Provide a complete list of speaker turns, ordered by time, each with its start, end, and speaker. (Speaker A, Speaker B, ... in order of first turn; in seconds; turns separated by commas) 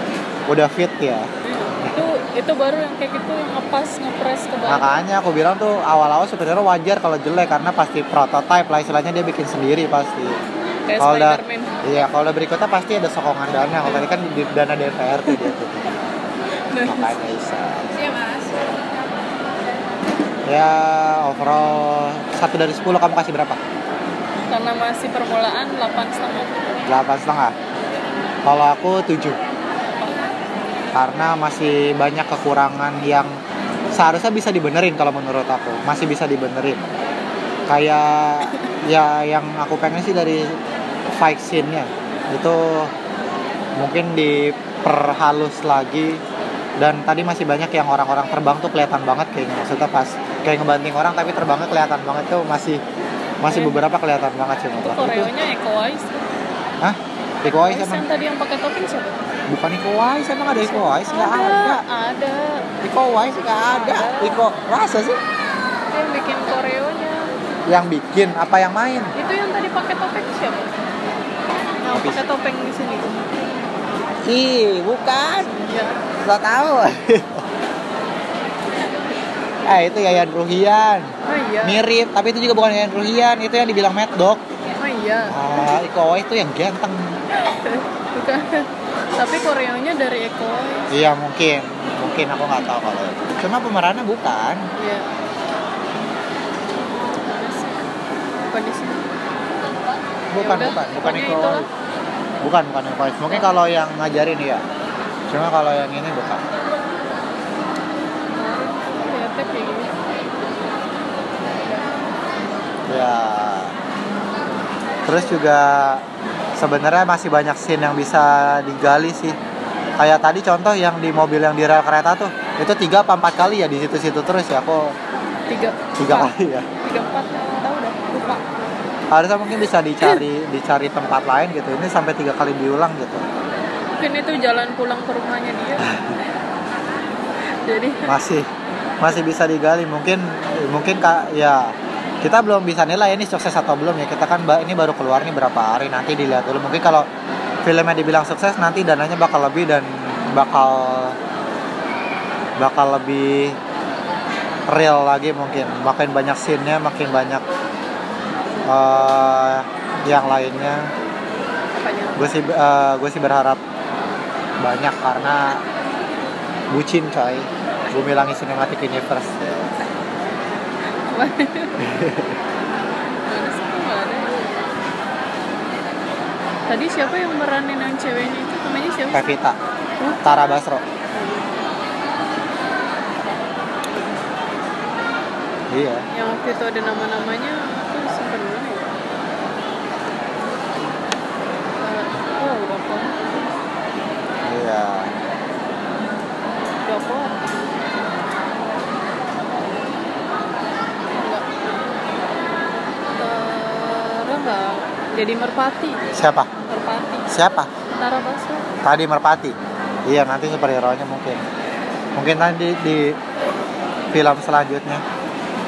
Speaker A: 0.5-1.3, Speaker B: 1.4-4.9, Speaker A: 4.7-10.4, Speaker B: 10.9-11.7, Speaker A: 11.0-15.9, Speaker B: 16.7-17.1, Speaker A: 16.8-17.9, Speaker B: 17.9-18.6, Speaker A: 20.5-23.6, Speaker B: 24.5-26.9, Speaker A: 26.9-27.5, Speaker A: 28.4-29.4, Speaker A: 30.9-33.4, Speaker A: 33.9-37.0, Speaker A: 37.7-40.6, Speaker A: 41.2-42.9, Speaker A: 43.8-46.2, Speaker A: 46.8-52.8, Speaker A: 53.4-55.3, Speaker B: 53.5-53.8, Speaker B: 54.8-56.2, Speaker A: 56.8-58.0, Speaker B: 57.6-59.2, Speaker A: 59.5-61.8, Speaker B: 60.6-62.7, Speaker A: 62.8-65.2, Speaker B: 63.6-64.4, Speaker B: 65.9-67.3, Speaker A: 67.7-69.1, Speaker B: 69.2-70.7, Speaker B: 71.8-73.3, Speaker A: 71.9-72.2, Speaker A: 74.2-75.5, Speaker B: 75.4-76.0, Speaker A: 76.2-77.4, Speaker A: 79.7-81.1, Speaker B: 81.3-81.8, Speaker A: 81.6-84.4, Speaker B: 84.8-85.7, Speaker A: 85.3-87.2, Speaker B: 87.4-90.9, Speaker A: 90.9-94.6, Speaker B: 94.8-95.1, Speaker B: 97.2-97.9, Speaker B: 98.4-99.1, Speaker A: 100.3-101.7, Speaker B: 100.4-101.7, Speaker A: 102.4-104.7, Speaker A: 105.3-106.5, Speaker B: 108.4-110.0, Speaker B: 111.6-112.0, Speaker A: 112.9-113.7, Speaker A: 115.1-116.0, Speaker A: 116.6-119.4, Speaker A: 120.0-125.0, Speaker B: 125.5-128.4, Speaker A: 126.0-126.7, Speaker A: 129.1-133.3, Speaker B: 134.0-136.1, Speaker A: 135.8-136.1, Speaker B: 137.6-138.1, Speaker A: 138.1-138.5, Speaker A: 139.0-147.1, Speaker A: 147.6-151.2, Speaker A: 152.6-153.6, Speaker A: 154.7-157.4, Speaker A: 158.7-160.9, Speaker B: 161.7-162.4, Speaker A: 162.2-163.6, Speaker A: 164.6-165.6, Speaker A: 166.7-169.8, Speaker B: 171.1-171.8, Speaker A: 171.8-172.4, Speaker B: 173.2-174.5, Speaker B: 176.7-179.3, Speaker A: 179.1-179.6, Speaker B: 180.0-180.6, Speaker A: 180.2-180.8, Speaker B: 181.1-181.6, Speaker A: 185.7-186.1, Speaker B: 186.1-188.9, Speaker B: 191.8-193.4, Speaker A: 194.4-195.1, Speaker B: 196.8-197.5, Speaker B: 201.1-201.5, Speaker B: 203.2-206.0, Speaker A: 206.1-206.5, Speaker B: 206.7-207.3, Speaker A: 207.3-207.7, Speaker B: 208.0-208.7, Speaker A: 208.8-209.6, Speaker A: 210.1-211.4, Speaker A: 212.2-213.2, Speaker A: 214.1-215.0